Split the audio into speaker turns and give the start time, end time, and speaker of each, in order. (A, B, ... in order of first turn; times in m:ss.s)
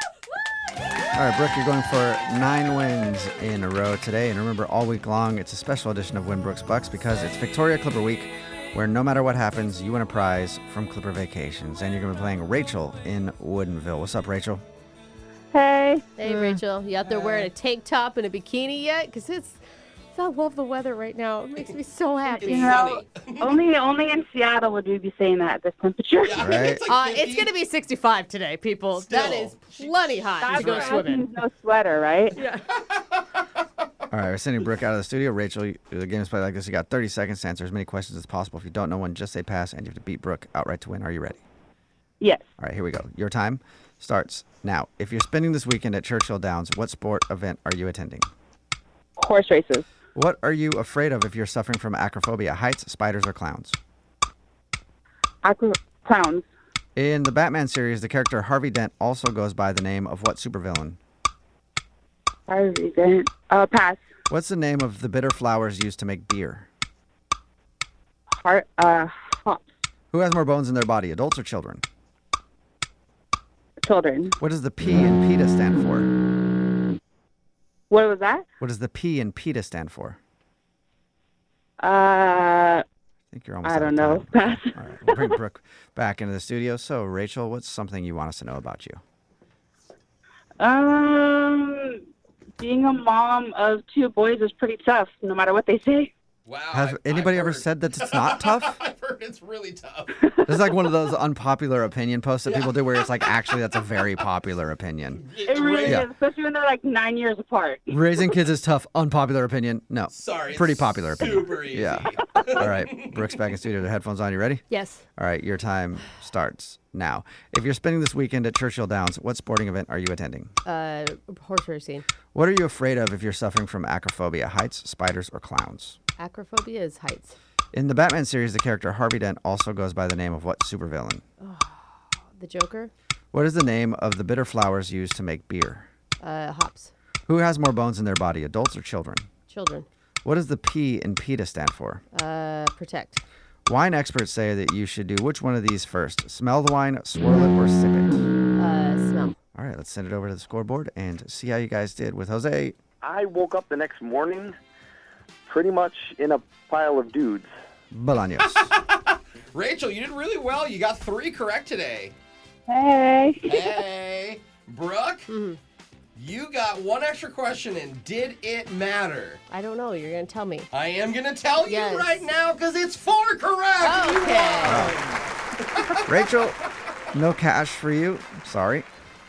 0:01.1-0:14.6 A
0:15.5-0:16.5 B
0:16.2-0:19.6 C
0:17.0-0:17.5 D
0:20.1-0:22.9 C
0:22.2-0:23.5 D
0:22.4-0:26.5 B
0:26.2-0:27.5 D
0:26.4-0:26.8 A
0:26.8-0:31.3 C
0:29.0-0:31.0 D
0:30.4-0:32.4 B
0:32.4-0:32.6 C
0:32.8-0:33.0 D
0:34.1-0:41.4 A
0:42.6-0:48.3 A
0:49.2-0:49.8 B
0:50.1-0:53.8 A
0:55.4-0:56.4 B
0:57.0-1:01.0 A
1:02.5-1:04.0 B
1:04.3-1:06.7 A
1:08.4-1:09.6 B
1:10.1-1:11.8 A
1:13.8-1:14.4 B
1:14.4-1:16.1 A
1:17.9-1:18.4 B
1:18.6-1:20.2 A
1:21.8-1:22.8 B
1:23.3-1:29.0 A
1:23.6-1:25.2 B
1:30.6-1:32.0 B
1:32.6-1:36.1 B
1:36.4-1:40.3 D
1:36.7-1:38.8 A
1:40.4-1:45.2 A
1:42.4-1:43.7 D
1:45.2-1:46.0 D
1:45.4-1:48.0 B
1:45.8-1:46.1 A
1:47.9-2:00.5 A
1:50.1-1:53.3 D
1:54.7-1:55.0 C
2:00.6-2:02.0 C
2:02.3-2:06.0 A
2:06.2-2:07.4 C
2:07.7-2:11.2 A
2:11.4-2:12.9 C
2:13.3-2:15.9 A
2:16.2-2:16.9 C
2:17.3-2:19.3 A
2:19.5-2:19.9 C
2:20.2-2:22.0 A
2:22.1-2:23.2 C
2:23.7-2:28.2 A
2:28.5-2:29.4 C
2:29.5-2:32.8 A
2:33.0-2:34.6 E
2:35.5-2:37.5 E
2:37.9-2:38.7 A
2:38.4-2:42.1 D
2:42.7-2:43.7 B
2:43.4-2:45.3 D
2:45.3-2:45.6 C
2:46.2-2:49.4 D
2:49.5-2:50.7 C
2:50.7-2:56.1 D
2:51.6-2:52.2 C
2:53.8-2:55.0 C
2:54.6-2:55.0 A
2:56.0-2:58.8 A